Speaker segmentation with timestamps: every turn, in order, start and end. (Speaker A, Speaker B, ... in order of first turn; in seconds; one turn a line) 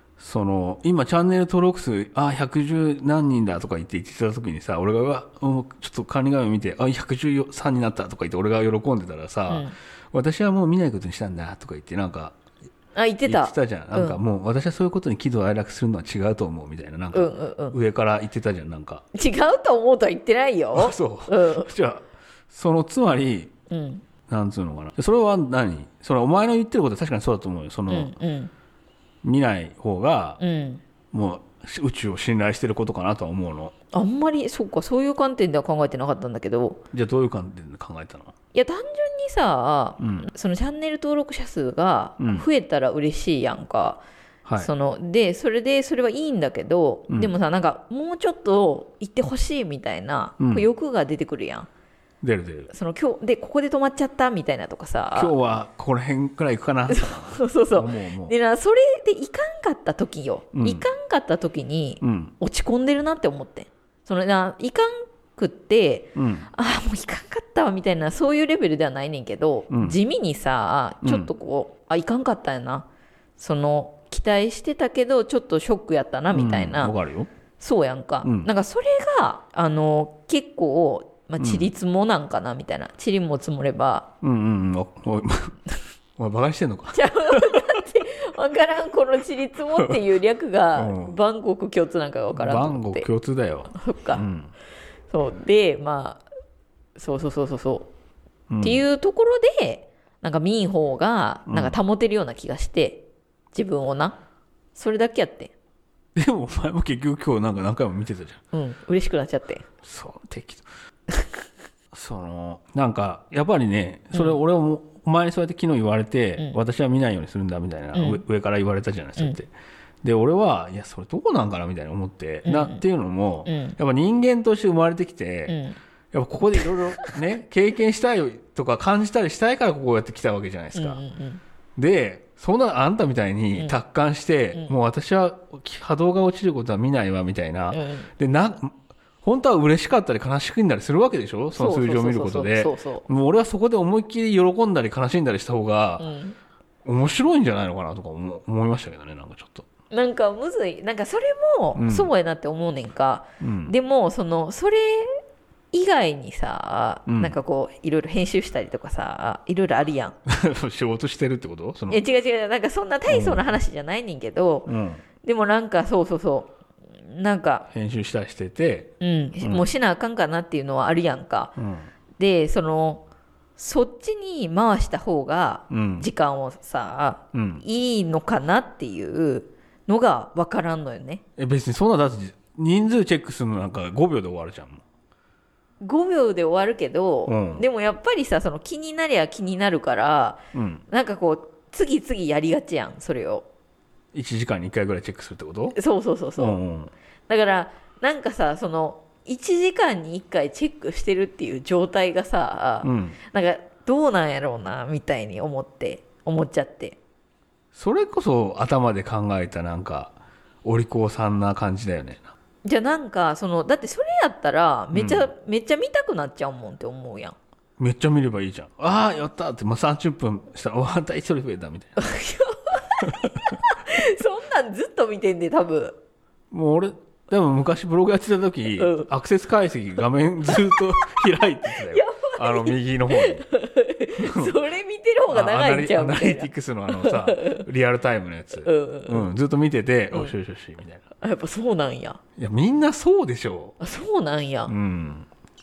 Speaker A: 0.2-12.3
Speaker B: 9.5-9.7
Speaker B: 12.9-14.2
Speaker A: 13.2-19.0
Speaker B: 17.1-17.8
Speaker B: 19.1-21.7
Speaker A: 20.7-23.5
Speaker B: 23.7-24.0
Speaker A: 24.3-28.1
Speaker B: 27.9-28.5
Speaker A: 29.2-30.4
Speaker B: 30.4-30.8
Speaker A: 31.1-33.7
Speaker B: 33.9-36.8
Speaker A: 36.9-38.3
Speaker B: 38.5-44.0
Speaker A: 40.0-40.3
Speaker A: 42.2-42.5
Speaker B: 44.6-51.7
Speaker A: 47.1-47.3
Speaker A: 50.4-50.7
Speaker A: 52.2-52.7
Speaker B: 52.7-55.3
Speaker A: 55.1-58.3
Speaker B: 56.9-72.9
Speaker A: 60.5-60.9
Speaker A: 62.0-62.3
Speaker A: 66.1-66.5
Speaker A: 69.7-70.0
Speaker A: 71.0-71.3
Speaker B: 73.4-76.9
Speaker A: 76.3-77.3
Speaker B: 77.6-84.1
Speaker A: 78.2-78.5
Speaker A: 81.4-81.7
Speaker A: 84.2-85.6
Speaker A: 86.2-87.8
Speaker B: 86.9-93.1
Speaker A: 90.8-91.2
Speaker A: 92.3-94.5
Speaker B: 93.7-94.2
Speaker B: 95.1-96.2
Speaker B: 97.0-97.9
Speaker A: 98.5-98.8
Speaker B: 98.6-104.2
Speaker A: 101.5-101.8
Speaker B: 104.8-105.5
Speaker A: 106.2-108.4
Speaker B: 108.5-109.7
Speaker A: 109.8-110.6
Speaker B: 111.1-111.4
Speaker A: 111.9-119.5
Speaker B: 114.1-114.4
Speaker B: 117.9-118.2
Speaker A: 120.0-125.6
Speaker B: 122.4-122.8
Speaker B: 123.5-123.8
Speaker B: 125.5-125.8
Speaker A: 126.1-131.0
Speaker B: 126.6-127.1
Speaker B: 130.7-131.4
Speaker A: 131.8-146.1
Speaker B: 137.7-138.1
Speaker B: 141.5-143.1
Speaker B: 146.0-146.4
Speaker A: 146.8-149.7
Speaker B: 149.9-155.2
Speaker A: 151.8-152.1
Speaker A: 153.4-153.7
Speaker B: 155.7-160.2
Speaker A: 157.1-157.3
Speaker A: 160.3-162.0
Speaker B: 161.9-164.7
Speaker A: 163.1-163.6
Speaker A: 164.7-165.0
Speaker B: 165.2-167.7
Speaker A: 167.7-169.7
Speaker B: 169.0-171.5
Speaker A: 171.6-171.9
Speaker B: 172.2-173.0
Speaker B: 173.6-181.2
Speaker A: 175.7-176.1
Speaker A: 177.3-177.6
Speaker A: 181.4-184.8
Speaker B: 185.8-193.4
Speaker A: 187.3-187.7
Speaker A: 190.5-190.8
Speaker A: 194.1-195.8
Speaker B: 195.7-196.6
Speaker A: 196.4-196.9
Speaker B: 197.3-207.0
Speaker A: 202.8-203.2
Speaker A: 207.7-210.1
Speaker A: 210.6-212.3
Speaker B: 212.6-217.3
Speaker A: 214.9-215.3
Speaker A: 217.8-222.0
Speaker B: 222.0-226.0
Speaker A: 226.5-233.4
Speaker B: 228.8-229.1
Speaker B: 230.5-230.8
Speaker B: 231.7-237.6
Speaker A: 234.2-234.5
Speaker A: 235.3-241.0
Speaker B: 238.6-239.3
Speaker B: 241.2-242.2
Speaker A: 242.4-243.8
Speaker B: 243.8-244.7
Speaker A: 244.7-245.3